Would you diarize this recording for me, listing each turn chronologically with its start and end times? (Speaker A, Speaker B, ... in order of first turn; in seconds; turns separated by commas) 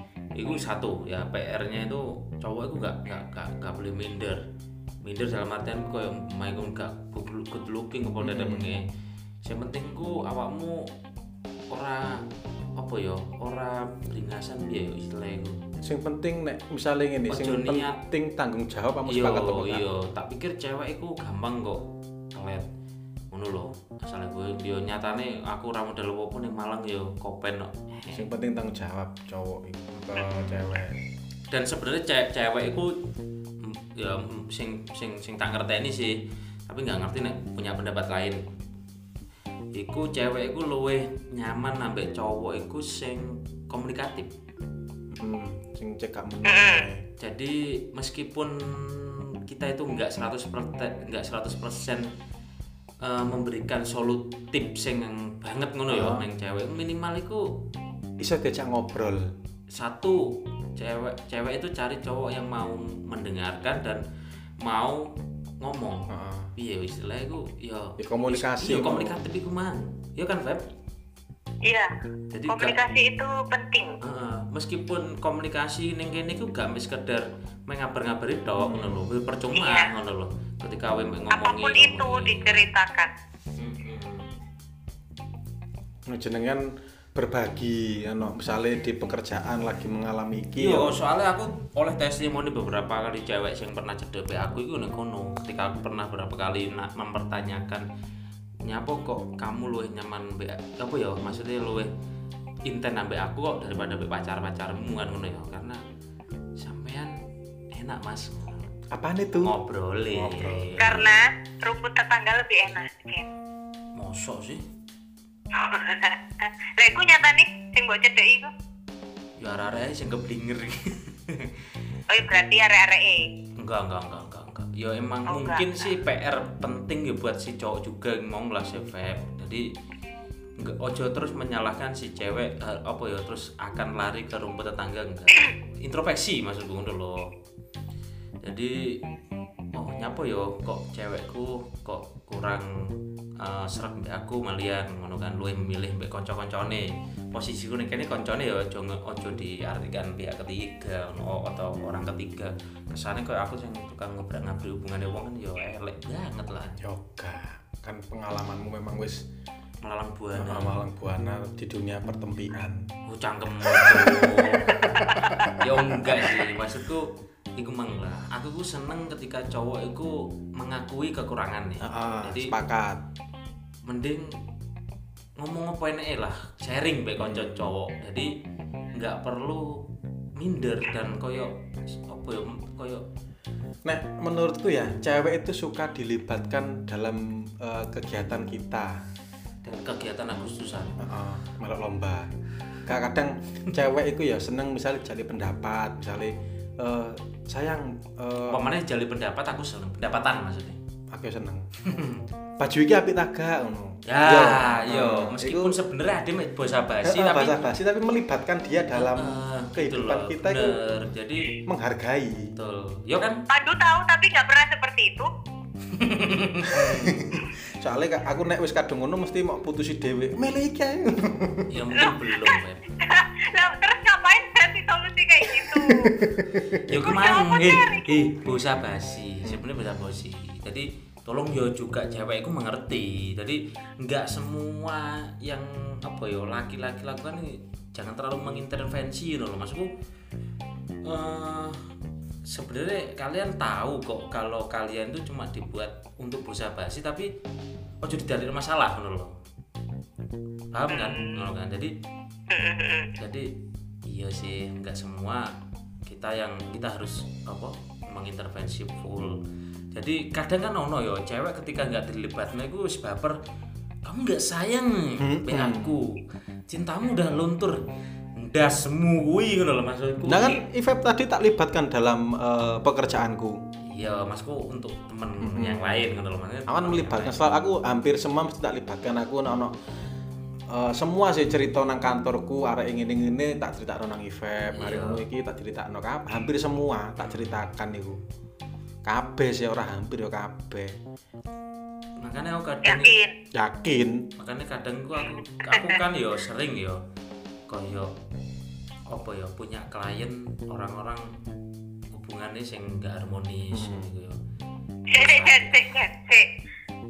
Speaker A: 0.3-4.4, Speaker A: 5.0-8.8, Speaker B: 8.2-8.7, Speaker A: 9.4-10.9, Speaker A: 11.7-12.2, Speaker A: 12.8-15.6, Speaker B: 15.8-19.8, Speaker A: 17.3-18.0, Speaker A: 19.1-22.6, Speaker A: 23.3-28.2, Speaker B: 28.1-31.0, Speaker A: 30.3-30.6, Speaker A: 31.5-33.0, Speaker A: 33.6-36.2, Speaker A: 36.7-38.4, Speaker A: 39.7-44.3, Speaker B: 45.1-47.0, Speaker C: 46.5-46.9, Speaker A: 47.2-52.1, Speaker A: 53.0-57.5, Speaker B: 55.9-56.2, Speaker B: 58.2-59.3, Speaker A: 59.7-64.0, Speaker A: 64.6-65.1, Speaker A: 65.6-70.7, Speaker B: 66.1-66.5, Speaker B: 68.0-69.2, Speaker C: 71.6-71.9, Speaker A: 72.3-72.8, Speaker C: 72.5-74.0, Speaker A: 74.0-82.6, Speaker B: 78.6-79.1, Speaker C: 79.5-79.9, Speaker C: 81.3-83.1, Speaker A: 83.6-84.3, Speaker B: 86.1-91.0, Speaker A: 90.6-97.8, Speaker A: 98.6-101.9, Speaker A: 102.6-105.8, Speaker A: 106.6-107.2, Speaker A: 107.7-108.7, Speaker B: 108.9-109.5, Speaker A: 109.4-111.1, Speaker B: 110.1-110.8, Speaker C: 110.8-113.3, Speaker A: 114.0-114.6, Speaker C: 115.5-118.5, Speaker A: 119.4-121.5, Speaker C: 122.1-123.3, Speaker A: 123.6-129.7, Speaker C: 125.3-125.9, Speaker A: 130.6-137.3, Speaker A: 138.4-139.0, Speaker A: 139.7-142.7, Speaker A: 143.4-156.8, Speaker B: 156.8-159.2, Speaker A: 159.8-160.8, Speaker B: 160.3-162.9, Speaker A: 163.1-172.5, Speaker B: 163.7-166.4, Speaker B: 171.8-173.0, Speaker A: 173.8-174.3, Speaker A: 175.4-178.3, Speaker B: 177.2-177.6, Speaker A: 178.9-179.8, Speaker A: 180.4-183.0, Speaker B: 183.8-189.0, Speaker A: 189.6-191.0, Speaker B: 191.0-192.3, Speaker B: 192.8-198.6, Speaker A: 198.5-200.8, Speaker B: 201.1-201.7, Speaker A: 201.8-202.2, Speaker B: 202.6-205.8, Speaker A: 204.1-207.6, Speaker B: 207.0-210.8, Speaker A: 208.9-211.5, Speaker B: 211.7-212.5, Speaker A: 212.6-213.4, Speaker C: 213.5-215.3, Speaker A: 215.9-217.4, Speaker B: 216.7-221.7, Speaker A: 221.7-222.8, Speaker C: 222.0-226.1, Speaker B: 225.6-226.9, Speaker A: 226.9-239.9, Speaker C: 227.0-228.3, Speaker A: 241.0-241.8, Speaker A: 242.5-247.3, Speaker A: 248.0-249.3, Speaker A: 250.7-251.9, Speaker C: 250.9-251.4, Speaker C: 252.5-253.1, Speaker A: 253.2-253.5, Speaker A: 254.1-255.5, Speaker A: 256.1-259.4, Speaker A: 259.9-263.4, Speaker A: 264.0-267.8, Speaker B: 265.2-265.9, Speaker A: 268.4-270.6, Speaker B: 270.2-273.6, Speaker A: 273.9-277.4, Speaker B: 275.4-276.0, Speaker B: 276.7-279.7, Speaker B: 280.7-288.2, Speaker A: 284.7-285.2, Speaker A: 287.2-287.7, Speaker B: 289.1-290.9, Speaker A: 292.2-293.1, Speaker C: 292.8-293.3, Speaker B: 293.5-294.3, Speaker A: 294.4-297.0, Speaker C: 295.6-296.0, Speaker A: 297.7-298.1, Speaker A: 299.1-301.3, Speaker A: 302.1-304.4, Speaker B: 303.7-304.1, Speaker C: 305.1-306.5, Speaker A: 305.1-305.8